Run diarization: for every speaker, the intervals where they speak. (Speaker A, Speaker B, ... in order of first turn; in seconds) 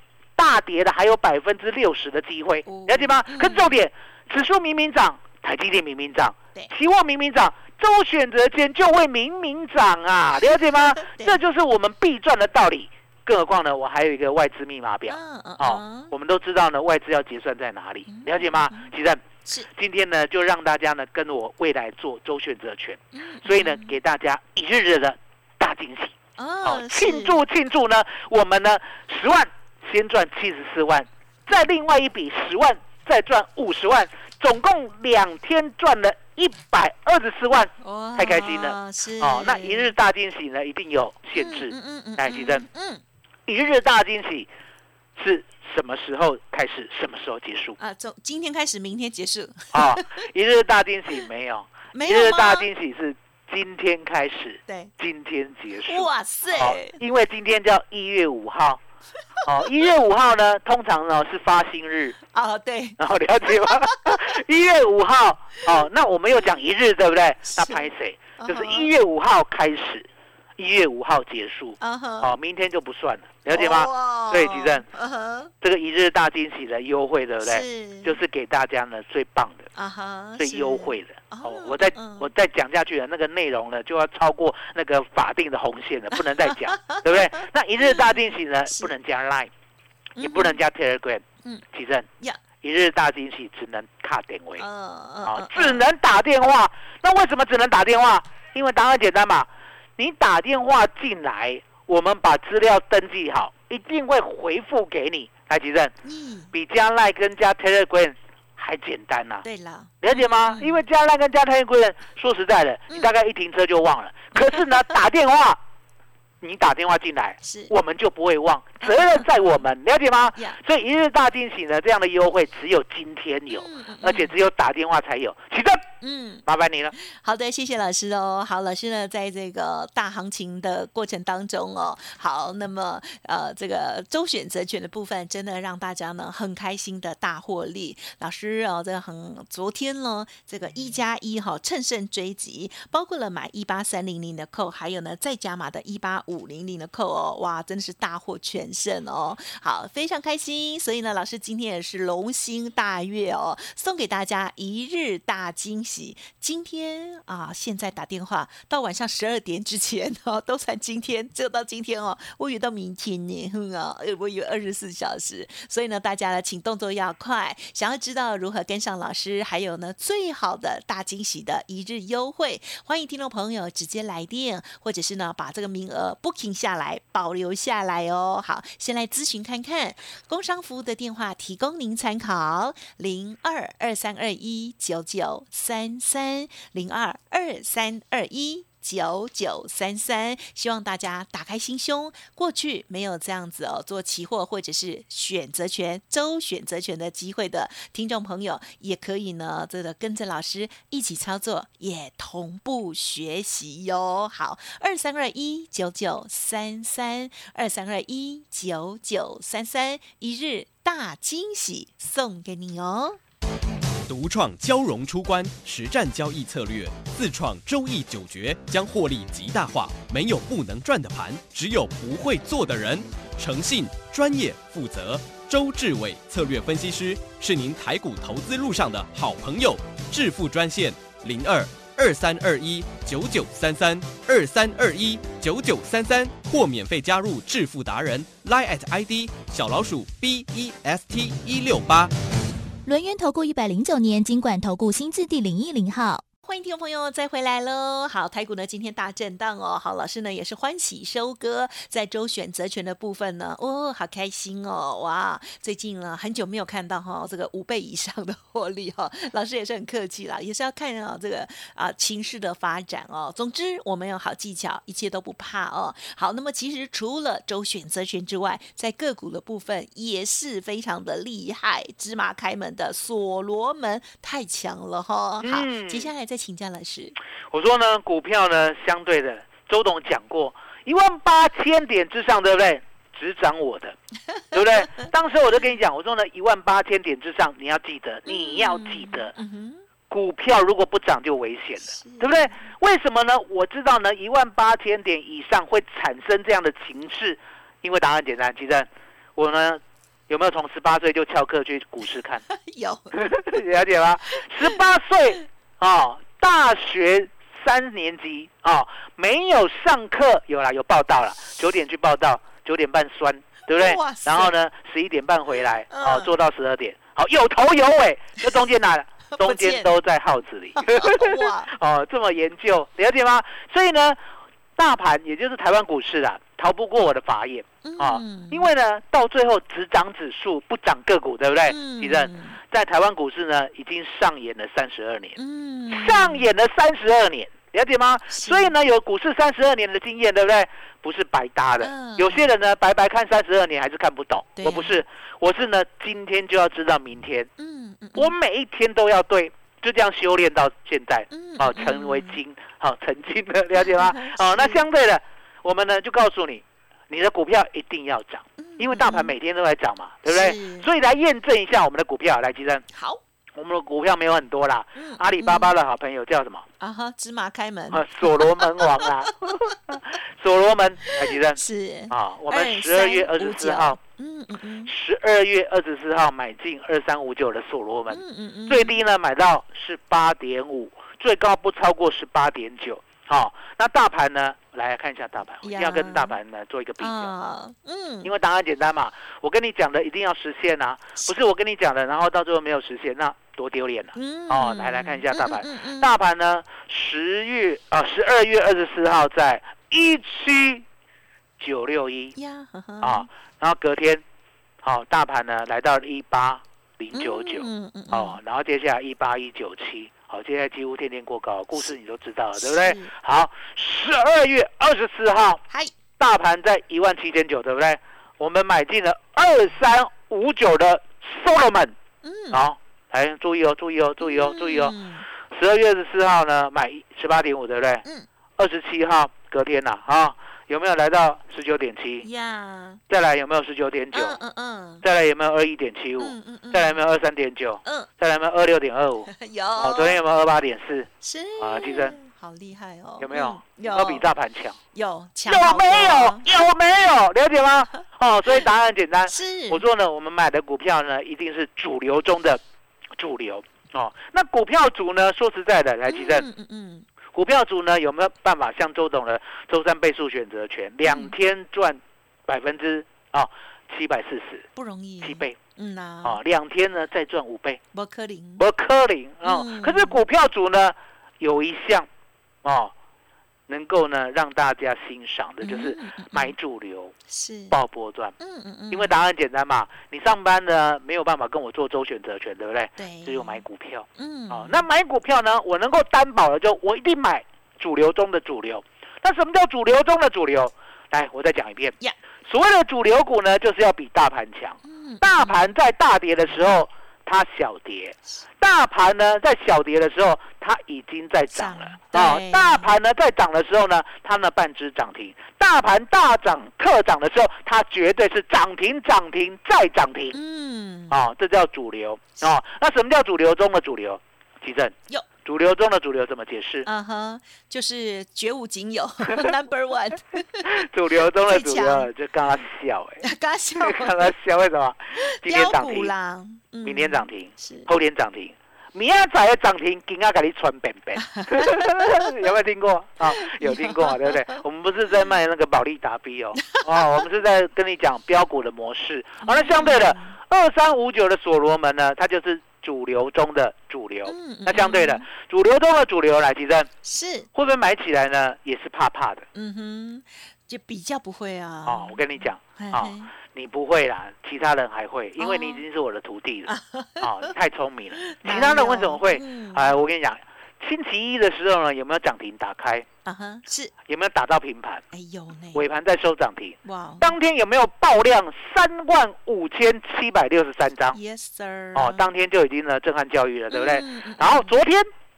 Speaker A: 0.4-42.6, 43.5-44.5, 45.2-47.8, 49.7-58.8, 59.5-62.2, 63.0-70.0, 70.6-74.8, 75.6-79.7, 80.4-89.5, 90.2-92.1, 92.6-94.6, 95.2-105.9, 106.5-109.4, 110.0-115.6, 116.4-125.9, 126.5-126.9, 275.4-276.1, 277.5-283.9, 284.5-289.3, 290.1-302.4, 303.1-324.2, 324.8-335.4, 335.9-347.5, 348.1-362.8, 363.6-366.6, 367.9-371.6, 372.1-374.0, 374.9-387.3, 388.2-400.8, 401.6-402.3, 403.0-404.2, 404.8-415.6, 416.2-421.9, 422.5-424.9, 425.5-428.0, 428.6-432.2, 433.1-434.4, 435.0-441.1, 441.6-442.1, 443.2-444.8, 445.5-452.6, 453.2-456.4, 457.3-464.7, 465.2-465.6, 466.2-467.8, 468.6-472.1, 472.6-472.9, 473.7-477.1, 477.7-478.4, 478.9-491.9, 492.4-510.4, 511.1-516.9, 520.7-523.2, 523.8-526.1, 526.8-546.9, 547.5-549.5, 551.9-563.0, 564.1-565.0, 565.7-571.1, 572.0-575.0
Speaker B: 2.6-3.8, 10.7-11.4, 15.1-16.1, 18.1-18.9, 23.1-23.9, 26.4-27.4, 37.8-39.9, 41.3-43.0, 47.8-50.2, 51.9-52.7, 54.7-54.9, 55.9-57.0, 62.2-64.4, 65.6-66.6, 67.4-68.9, 71.8-72.3, 73.5-75.5, 77.4-78.2, 79.7-82.3, 86.1-88.9, 90.2-90.6, 94.6-95.8, 106.0-106.5, 109.4-110.8, 114.3-114.8, 117.4-117.7, 118.8-119.7, 123.5-124.3, 126.0-126.4, 126.9-213.2, 246.4-277.1, 284.8-285.1, 288.3-289.8, 291.8-292.7, 302.5-303.6, 304.4-304.8, 313.7-314.5, 315.9-316.3, 319.3-319.9, 320.8-321.7, 327.8-328.7, 331.7-332.6, 335.4-336.5, 338.3-338.7, 341.8-342.5, 344.6-345.0, 347.6-348.4, 351.3-352.4, 353.8-354.8, 358.6-359.3, 360.3-360.9, 362.9-363.2, 364.9-365.7, 366.8-369.7, 371.1-374.9, 378.1-378.9, 385.6-386.4, 387.0-388.3, 394.1-396.1, 402.3-403.3, 407.1-408.4, 412.6-413.1, 422.2-422.6, 424.2-425.2, 432.2-433.0, 434.1-435.0, 436.2-437.0, 439.3-440.2, 441.2-444.2, 444.9-446.5, 449.3-449.8, 456.1-457.1, 461.0-461.3, 464.8-466.4, 467.9-468.6, 469.4-470.2, 475.6-476.5, 477.3-477.8, 478.4-479.1, 483.0-483.6, 484.1-484.8, 494.8-495.7, 501.5-502.9, 510.3-511.2, 516.8-520.8, 521.5-522.1, 523.2-524.3, 525.2-527.9, 531.2-532.4, 533.3-534.6, 536.6-537.2, 539.4-540.4, 544.2-545.2, 547.0-547.5, 549.5-553.3, 555.4-555.8, 556.7-557.5, 558.2-560.0, 563.2-563.9, 565.1-565.9, 566.8-567.4, 571.1-572.3, 573.7-574.8
Speaker C: 214.1-242.1
Speaker D: 242.8-246.2